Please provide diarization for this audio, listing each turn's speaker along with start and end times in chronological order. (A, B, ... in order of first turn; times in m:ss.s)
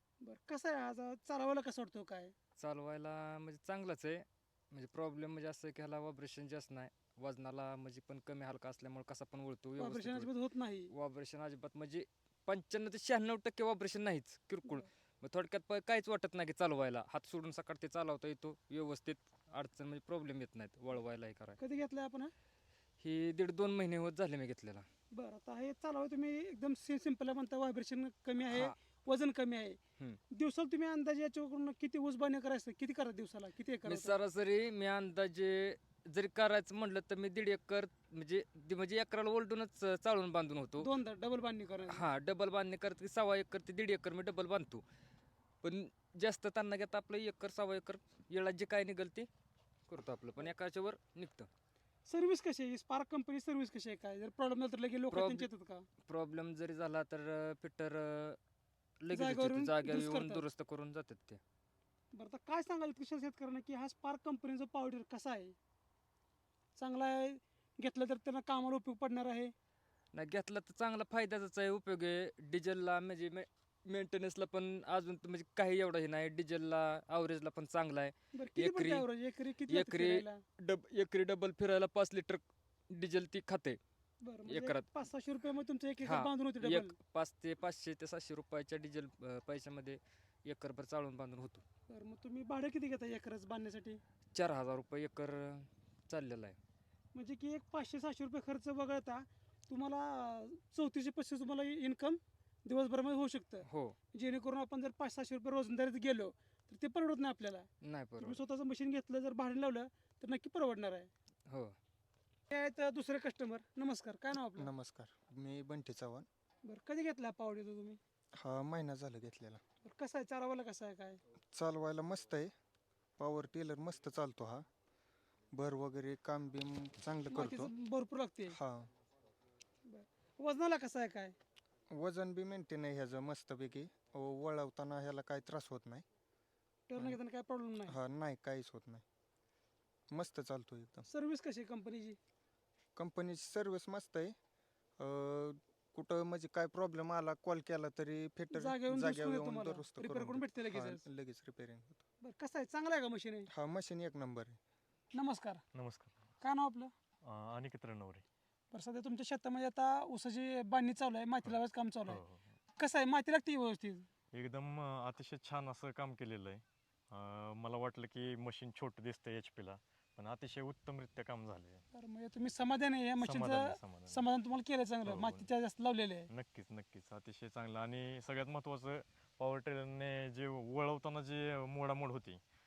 0:00.2-0:02.3 A
0:02.6-0:10.3 B
0:09.8-0:10.9 A
0:10.9-0:21.6 B
0:21.6-0:22.3 A
0:23.0-0:24.8 B
0:25.1-0:29.8 A
0:28.5-0:28.7 B
0:30.3-0:34.1 A
0:33.8-0:40.9 B
0:40.8-0:42.0 A
0:41.9-0:44.8 B
0:45.6-0:49.3 B
0:49.9-0:51.5 B
0:52.1-0:55.8 A
0:55.1-0:55.5 B
0:56.0-0:58.4 B
0:59.0-1:01.4 B
0:59.1-1:00.4 A
1:02.1-1:05.5 A
1:06.8-1:09.5 A
1:10.1-1:19.1 B
1:18.3-1:20.4 A
1:19.6-1:23.8 B
1:24.2-1:27.0 A
1:24.4-1:24.9 B
1:26.0-1:31.6 B
1:31.9-1:34.0 A
1:34.3-1:36.6 B
1:37.1-1:47.7 A
1:43.6-1:44.0 B
1:47.8-1:48.4 B
1:48.2-1:51.1 A
1:51.5-1:51.7 B
1:52.5-1:54.7 A
1:54.4-1:56.3 C
1:56.6-1:58.0 A
1:58.3-1:59.6 C
1:59.8-2:01.2 A
2:01.5-2:02.5 C
2:03.2-2:04.6 C
2:05.5-2:07.7 C
2:07.3-2:08.6 A
2:08.5-2:08.9 C
2:09.9-2:11.3 A
2:11.9-2:16.0 C
2:16.9-2:18.0 A
2:17.8-2:19.0 C
2:20.1-2:21.1 C
2:21.1-2:22.2 A
2:23.0-2:24.4 C
2:25.0-2:32.0 C
2:28.5-2:31.0 A
2:32.2-2:33.5 A
2:33.5-2:34.6 C
2:35.1-2:35.6 A
2:35.7-2:36.2 D
2:36.4-2:36.9 A
2:37.2-2:38.2 D
2:38.7-2:42.2 A
2:41.4-2:42.5 D
2:42.8-2:44.1 A
2:44.3-2:51.8 D
2:51.9-2:56.3 A
2:53.2-2:54.3 D
2:55.0-2:55.5 D
2:56.3-3:02.4 D